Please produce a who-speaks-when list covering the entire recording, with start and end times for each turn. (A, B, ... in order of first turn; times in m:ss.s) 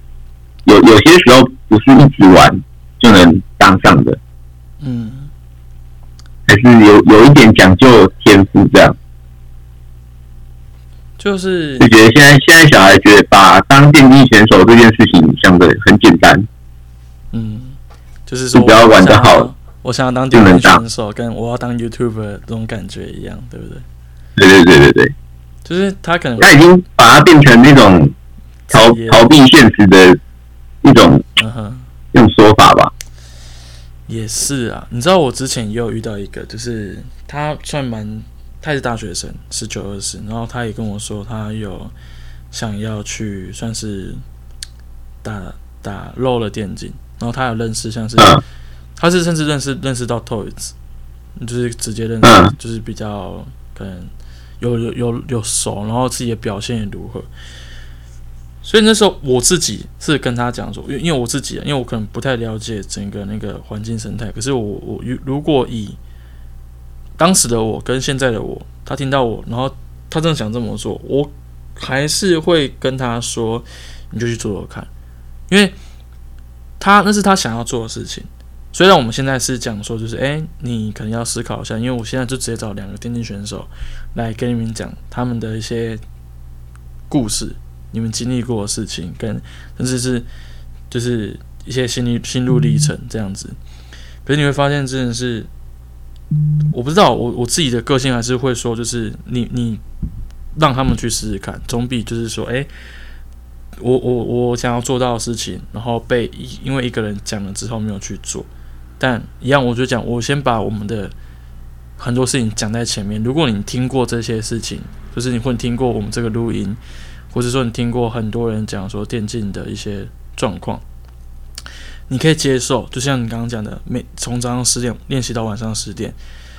0:00.6-0:04.2 A
0:04.8-0:05.3 B
0:06.5-0:09.0 A
0:11.2-0:11.9 B
0:11.8-0:16.5 A
0:17.3-0:23.8 B
0:18.5-0:19.5 A
0:20.3-0:20.8 A
0:24.4-0:25.1 A
0:25.6-0:26.5 B
0:26.4-0:28.2 A
0:28.7-0:29.3 B
0:28.7-0:30.2 A
0:30.8-0:31.3 A
0:31.4-0:31.9 B
0:32.1-0:32.9 A
0:34.1-0:41.9 B
0:42.5-0:44.2 B
0:45.2-0:48.4 B
0:48.2-0:48.4 A
0:49.0-0:50.7 B
0:51.4-0:57.3 B
0:52.2-0:52.5 A
0:58.6-1:06.0 B
1:07.2-1:14.9 B
1:15.5-1:15.8 B
1:16.8-1:26.0 B
1:27.1-1:30.3 B
1:30.9-1:33.6 B
1:34.2-1:35.5 B
1:36.7-1:39.8 B
1:40.6-1:42.7 B
1:43.8-1:48.5 B
1:49.0-1:51.1 B
1:52.0-1:56.8 B
1:57.3-2:00.8 B
2:02.1-2:06.2 B